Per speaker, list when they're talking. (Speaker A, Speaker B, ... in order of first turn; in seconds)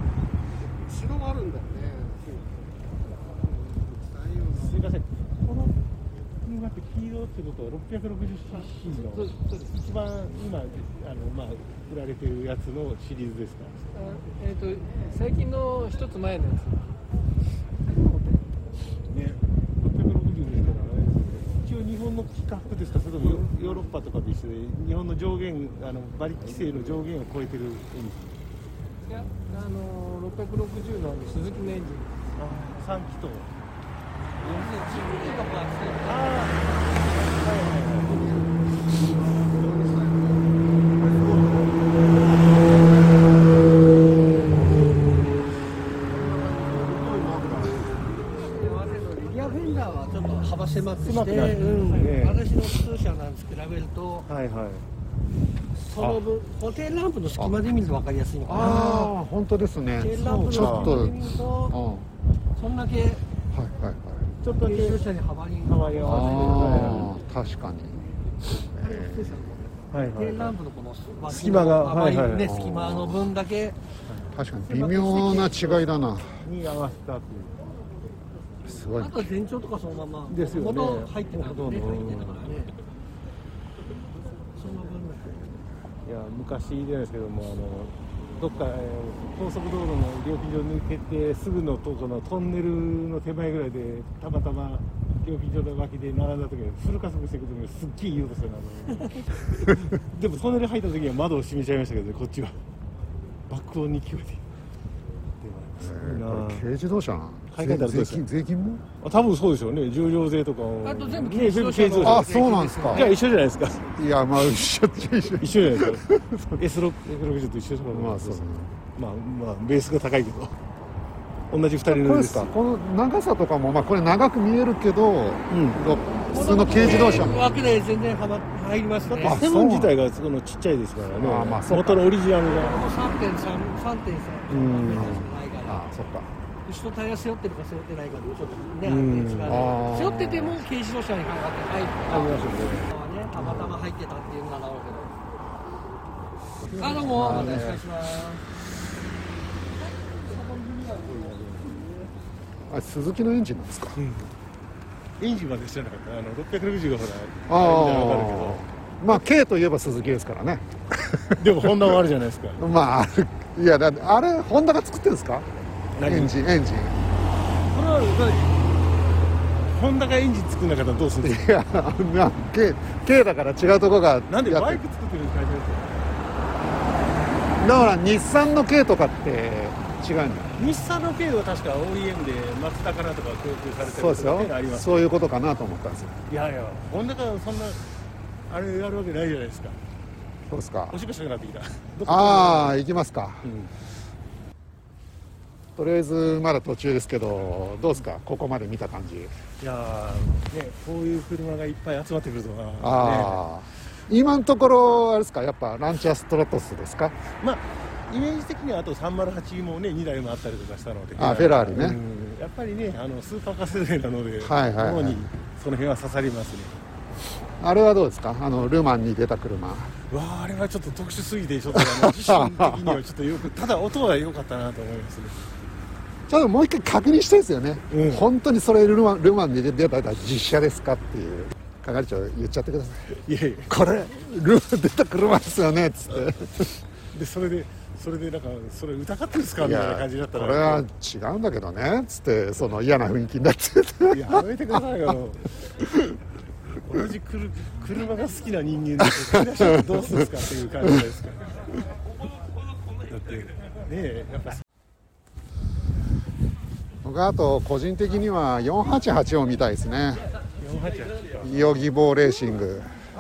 Speaker A: 0.8-2.7, 3.4-4.8, 38.0-43.1, 46.0-48.5
Speaker B: 4.5-5.8, 6.4-13.9, 19.1-28.4, 32.4-33.5, 34.4-35.3, 36.0-38.3, 51.0-52.6, 54.3-54.9, 58.6-59.1, 60.2-61.0, 64.4-65.1, 65.6-67.1, 69.9-70.6, 71.3-72.6, 76.4-77.7, 80.3-82.7, 86.0-102.6, 103.5-104.4, 105.4-106.7, 107.5-108.2, 109.0-113.8, 115.4-120.6, 121.5-122.5, 125.5-125.8, 129.1-132.9, 134.5-135.3, 138.8-139.8, 142.1-142.9, 146.7-147.8, 150.8-151.8, 154.0-154.3, 155.2-158.7, 161.4-162.6, 166.0-166.4, 167.7-168.7, 169.7-171.4, 174.3-176.0, 180.6-185.1, 186.3-187.8, 188.5-189.8, 190.9-192.8, 193.4-193.7, 199.6-203.4, 207.4-216.8, 220.1-225.4, 227.9-228.2, 233.2-233.7, 237.1-240.9, 244.1-245.5, 246.8-251.5, 253.1-254.6, 260.6-261.8
Speaker C: 8.8-9.7, 13.9-16.8, 17.9-18.4, 29.4-32.1, 34.5-35.5, 50.9-52.5, 60.2-61.4, 71.4-72.4, 80.0-82.0, 111.0-113.0, 126.4-127.3, 134.4-135.1, 139.0-140.2, 147.0-147.7
Speaker D: 31.1-31.9, 34.5-36.0, 48.6-54.2, 55.9-59.0, 60.0-61.7, 62.6-63.2, 64.6-66.6, 68.9-73.8, 74.9-75.7, 79.0-82.7, 84.6-85.3, 110.9-113.1, 126.3-129.4, 132.5-135.8, 136.7-142.3, 142.9-145.2, 146.8-148.4
Speaker E: 55.9-56.2, 57.4-57.6, 58.5-62.1, 63.5-64.3, 66.0-68.1, 68.7-69.6, 72.4-73.4, 74.3-76.4, 78.7-79.3, 105.8-108.8, 112.0-113.1, 113.8-116.6, 117.9-118.8, 121.9-127.6, 129.2-130.0, 131.2-132.1, 134.6-136.3, 139.4-140.6, 143.4-143.8, 147.0-147.8, 152.7-154.0, 157.5-161.9, 162.6-165.5, 166.0-167.0, 171.2-174.8, 177.6-180.6, 183.8-186.2, 190.5-191.0, 192.1-193.5, 195.8-199.3, 202.8-207.2, 211.2-212.0, 214.4-215.2, 217.6-219.9, 221.7-223.0, 226.3-233.2, 233.7-236.8, 239.6-244.4, 249.0-250.2, 257.0-260.2, 261.4-262.9